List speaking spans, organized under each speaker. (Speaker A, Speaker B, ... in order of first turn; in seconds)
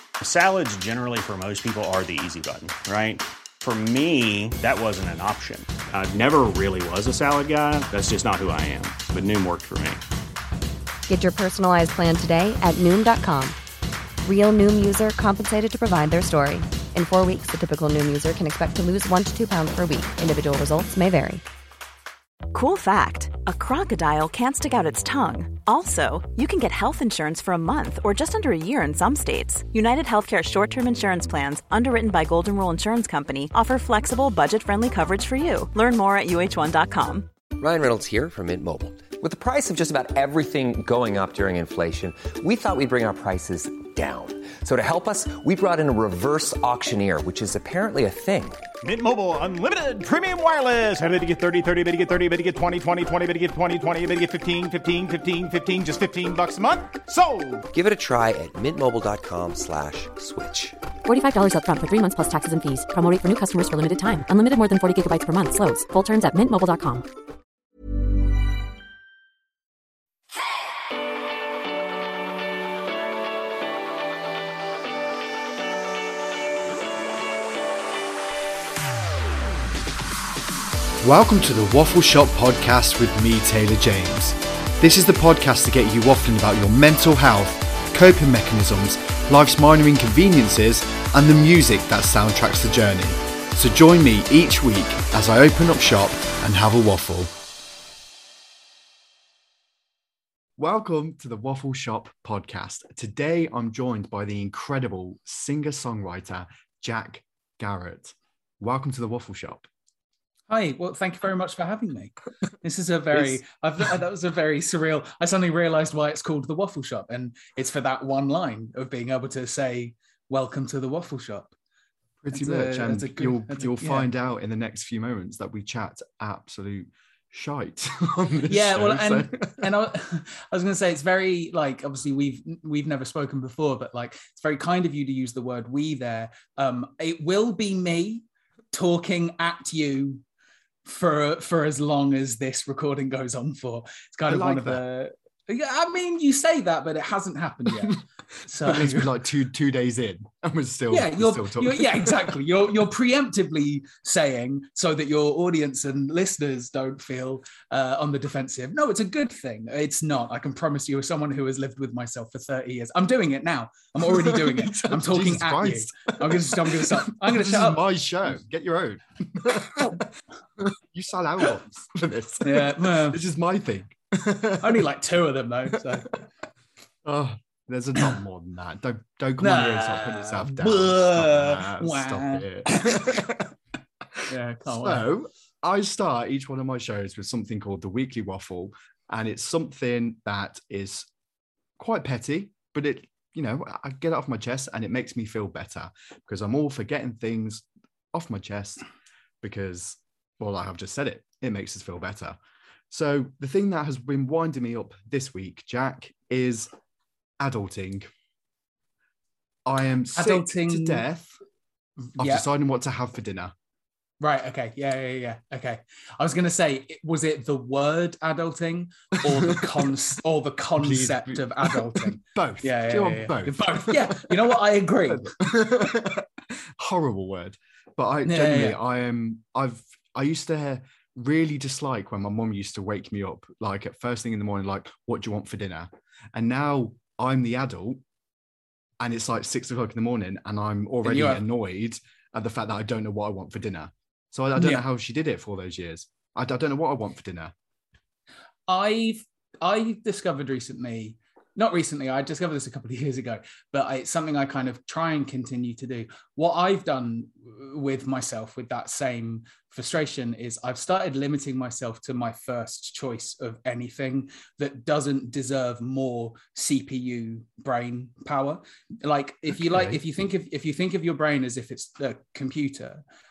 Speaker A: 0.2-10.0
Speaker B: 11.1-13.6, 14.2-21.4
Speaker C: 22.5-37.3
Speaker D: 37.6-48.6, 57.7-60.8
Speaker E: 48.8-57.6
Speaker F: 61.0-67.0
Speaker G: 81.0-97.3, 100.6-109.7, 113.1-113.4, 122.2-129.7, 144.3-144.8, 147.7-148.0, 148.6-152.3, 164.1-170.1, 170.6-174.8, 177.0-183.5, 184.1-191.1, 191.8-198.8, 199.4-202.4, 202.9-206.7, 207.4-208.1, 209.7-211.4, 212.2-213.5, 219.2-219.7, 220.8-238.0, 239.0-247.5, 269.6-270.0
Speaker H: 110.5-121.5, 122.3-124.1, 128.5-140.2, 140.8-149.1, 150.9-167.8, 172.4-173.2, 174.6-176.2, 179.4-183.3, 184.3-185.1, 210.1-211.1, 212.1-212.4, 214.2-225.3, 228.2-228.8, 241.0-241.4, 244.6-244.8, 248.7-273.0